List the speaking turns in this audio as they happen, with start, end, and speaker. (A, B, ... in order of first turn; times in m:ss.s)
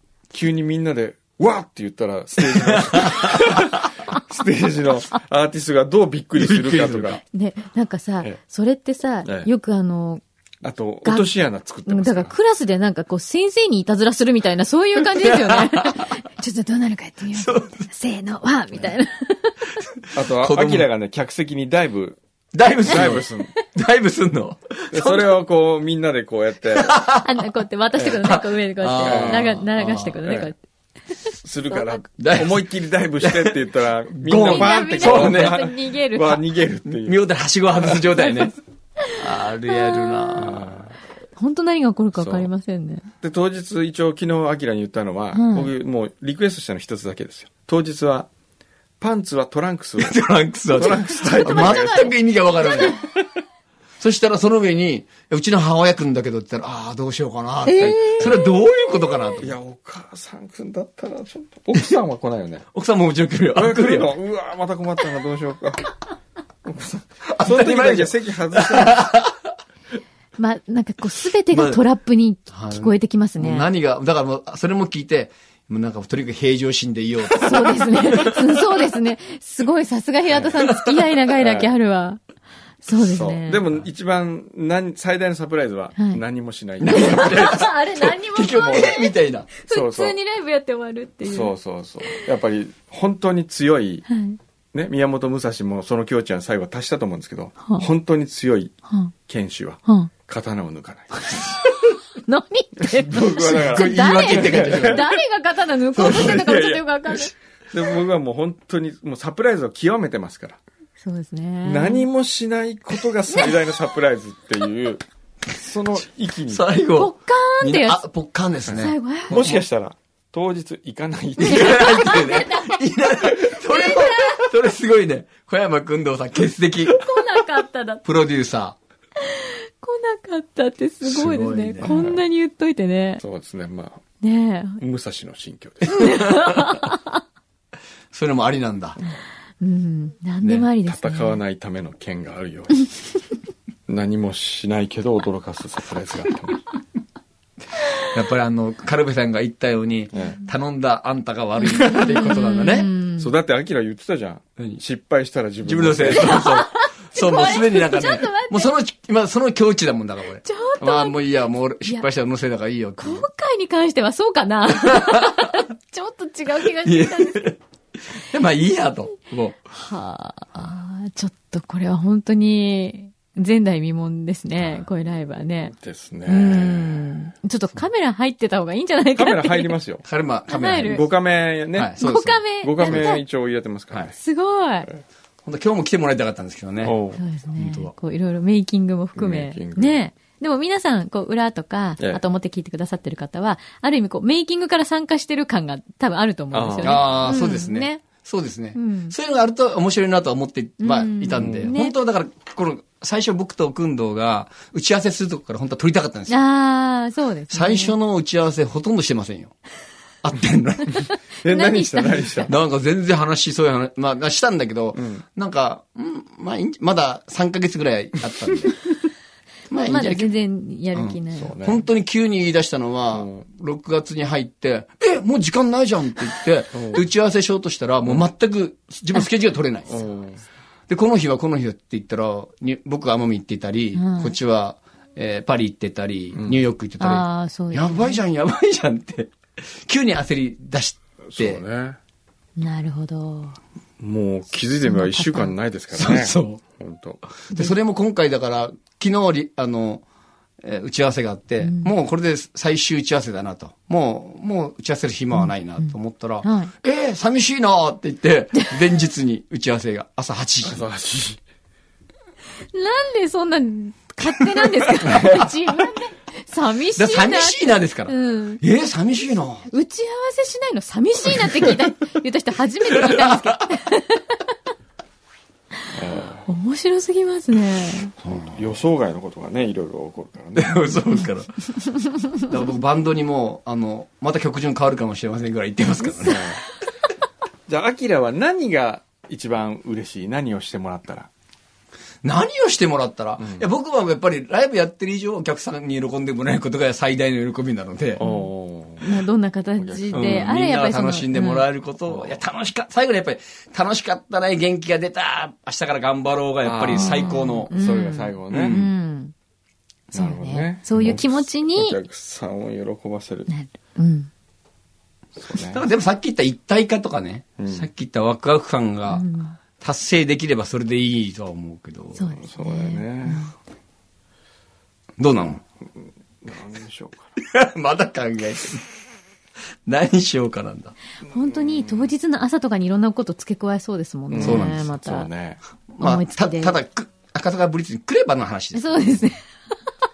0:00.3-0:07.2 A
0:02.6-0:03.7 B
0:06.4-0:07.2 B
0:07.3-0:10.2 C
0:10.6-0:12.3 A
0:11.0-0:11.3 C
0:11.9-0:19.7 C
0:15.0-0:16.1 B
0:17.3-0:17.9 B
0:19.8-0:20.9 B
0:20.1-0:22.2 A
0:22.5-0:25.4 B
0:22.8-0:23.5 A
0:24.9-0:27.0 A
0:26.7-0:27.4 B
0:27.2-0:30.6 C
0:28.1-0:30.2 B
0:29.0-0:29.6 A
0:30.2-0:30.5 A
0:31.4-0:37.2 A
0:31.7-0:32.0 C
0:32.2-0:33.6 B
0:34.1-0:35.6 B
0:34.4-0:36.4 C
0:36.9-0:38.6 B
0:39.0-0:40.6 C
0:39.1-0:40.8 B
0:40.4-0:40.9 A
0:41.4-0:43.1 C
0:42.1-0:42.5 A
0:43.2-0:48.3 A
0:45.3-0:45.7 C
0:49.0-0:52.1 A
0:50.0-0:53.0 B
0:51.3-0:53.0 C
0:54.0-0:59.6 B
0:57.6-0:58.5 C
0:57.8-0:58.3 A
0:59.4-1:02.7 A
1:02.7-1:04.1 B
1:03.5-1:05.9 A
1:06.6-1:09.1 A
1:07.3-1:09.5 B
1:10.4-1:13.7 C
1:11.5-1:11.8 B
1:12.5-1:18.6 B
1:17.4-1:22.2 C
1:20.6-1:21.0 B
1:21.4-1:21.7 A
1:22.8-1:23.6 C
1:23.0-1:27.7 A
1:26.0-1:26.2 C
1:26.8-1:29.5 B
1:26.9-1:31.5 C
1:28.6-1:29.0 A
1:29.7-1:30.2 A
1:31.2-1:34.1 A
1:34.1-1:34.4 C
1:34.7-1:38.7 A
1:39.3-1:41.6 A
1:41.2-1:47.3 C
1:42.8-1:45.1 A
1:43.4-1:45.1 B
1:46.0-1:50.6 A
1:46.0-1:46.4 B
1:51.0-1:52.1 C
1:51.6-1:56.6 A
1:56.5-1:59.6 B
1:57.0-1:58.0 C
1:58.7-2:02.4 A
1:58.8-1:59.4 C
2:01.4-2:07.0 B
2:01.4-2:02.8 C
2:03.7-2:04.4 C
2:06.9-2:08.0 C
2:08.0-2:08.8 B
2:09.2-2:13.2 C
2:11.0-2:12.2 B
2:11.8-2:12.2 A
2:13.2-2:14.0 A
2:14.2-2:14.8 C
2:14.8-2:16.2 A
2:15.9-2:17.2 C
2:16.0-2:16.8 B
2:18.1-2:19.0 B
2:19.6-2:21.4 C
2:20.8-2:22.9 A
2:23.9-2:26.6 A
2:28.1-2:32.9 B
2:30.1-2:30.4 A
2:31.6-2:33.3 C
2:33.2-2:36.5 A
2:35.6-2:43.3 B
2:36.1-2:38.7 C
2:40.4-2:41.2 C
2:43.0-2:47.5 C
2:44.8-2:45.6 B
2:46.7-2:49.6 B
2:49.7-2:55.7 C
2:55.7-2:57.3 A
2:56.2-2:59.7 C
2:59.2-3:00.0 A
3:00.0-3:01.0 B
3:00.5-3:01.1 C
3:00.8-3:02.0 A
3:01.7-3:03.1 B
3:02.0-3:03.2 C
3:02.6-3:04.2 A
3:04.2-3:04.9 C
3:05.4-3:07.0 B
3:06.8-3:07.2 A
3:07.2-3:18.0 C
3:07.6-3:07.9 B
3:09.2-3:10.0 A
3:16.5-3:17.3 A
3:16.8-3:26.4 B
3:18.7-3:19.1 C
3:20.8-3:21.9 C
3:21.4-3:21.7 A
3:26.3-3:28.0 C
3:27.5-3:29.6 B
3:30.2-3:31.0 B
3:30.9-3:32.5 C
3:31.4-3:32.5 A
3:32.5-3:38.8 B
3:34.9-3:35.2 A
3:39.7-3:40.3 B
3:39.8-3:41.5 C
3:40.9-3:50.0 B
3:41.4-3:41.8 A
3:43.1-3:43.4 A
3:46.7-3:47.0 A
3:49.9-3:50.4 A
3:50.9-4:01.6 B
3:53.9-3:54.4 C
3:56.3-3:56.6 A
3:57.0-3:58.2 C
4:01.2-4:02.0 A
4:02.6-4:03.6 C
4:04.0-4:07.2 A
4:04.9-4:05.5 C
4:05.9-4:06.6 B
4:07.5-4:10.0 B
4:10.6-4:20.8 B
4:11.6-4:11.9 C
4:15.4-4:16.7 C
4:20.6-4:21.4 A
4:22.7-4:28.6 C
4:24.9-4:25.5 B
4:27.0-4:29.7 B
4:29.7-4:34.5 C
4:31.4-4:31.7 B
4:32.9-4:33.7 B
4:35.9-4:36.5 A
4:36.5-4:38.1 C
4:38.2-4:38.6 B
4:38.4-4:41.0 A
4:40.6-4:46.6 B
4:46.2-4:46.6 A
4:47.7-4:51.3 A
4:52.2-4:58.2 B
4:53.4-4:53.6 A
4:58.2-4:59.2 A
4:58.2-4:58.5 C
4:59.0-5:01.7 C
4:59.8-5:00.5 A
5:00.1-5:07.7 B
5:02.1-5:02.4 A
5:06.6-5:08.8 A
5:06.9-5:09.3 C
5:08.5-5:08.9 B
5:10.1-5:13.5 A
5:10.1-5:12.0 C
5:13.5-5:14.3 C
5:15.4-5:15.8 A
5:15.5-5:19.2 B
5:17.6-5:17.9 A
5:19.1-5:19.6 C
5:19.8-5:22.3 B
5:22.2-5:23.5 C
5:22.4-5:23.5 A
5:25.2-5:25.6 B
5:26.4-5:27.3 A
5:27.4-5:28.8 B
5:29.9-5:30.9 B
5:31.3-5:35.3 C
5:31.3-5:32.1 A
5:34.3-5:35.6 A
5:34.4-5:34.8 B
5:35.9-5:39.2 B
5:36.0-5:36.8 C
5:38.7-5:39.4 C